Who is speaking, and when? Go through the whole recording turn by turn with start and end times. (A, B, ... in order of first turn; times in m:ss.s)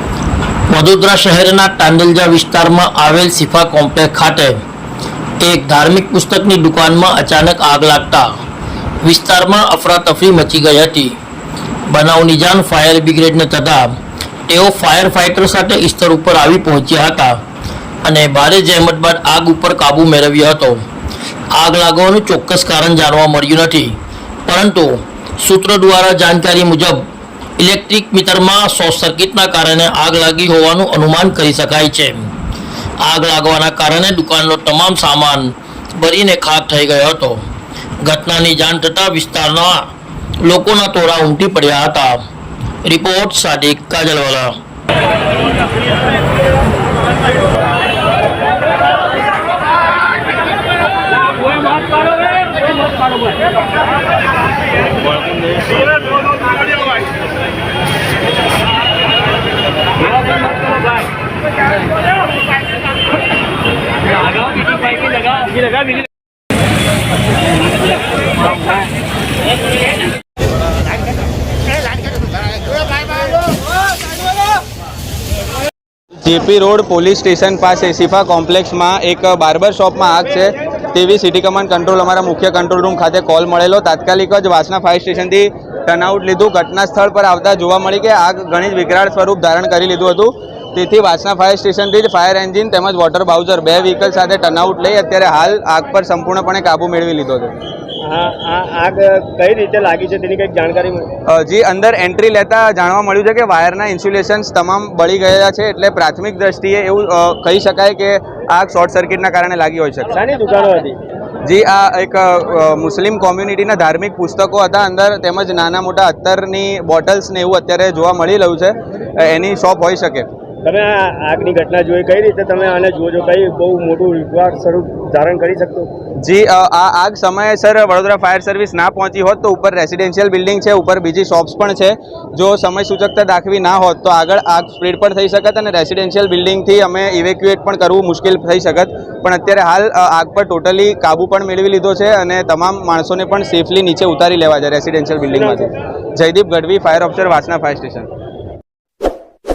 0:00.7-0:04.6 A
0:05.4-0:08.3 A
0:09.0-0:11.2 A
0:11.9-0:13.9 A
0:14.5-0:17.4 A
0:18.0-0:20.8 A
0:21.5-0:27.1 A
0:27.6-0:32.3 A
0:33.0-0:37.4 A
0:38.0-0:39.9 A
0:40.4-0:42.2 A
0:42.8-0:44.6 A
1:16.2-1:37.5 B
1:38.1-1:41.1 C
1:41.3-1:50.1 B
1:50.1-1:51.0 C
1:51.4-2:00.3 B
2:00.6-2:05.9 C
2:06.2-2:28.1 B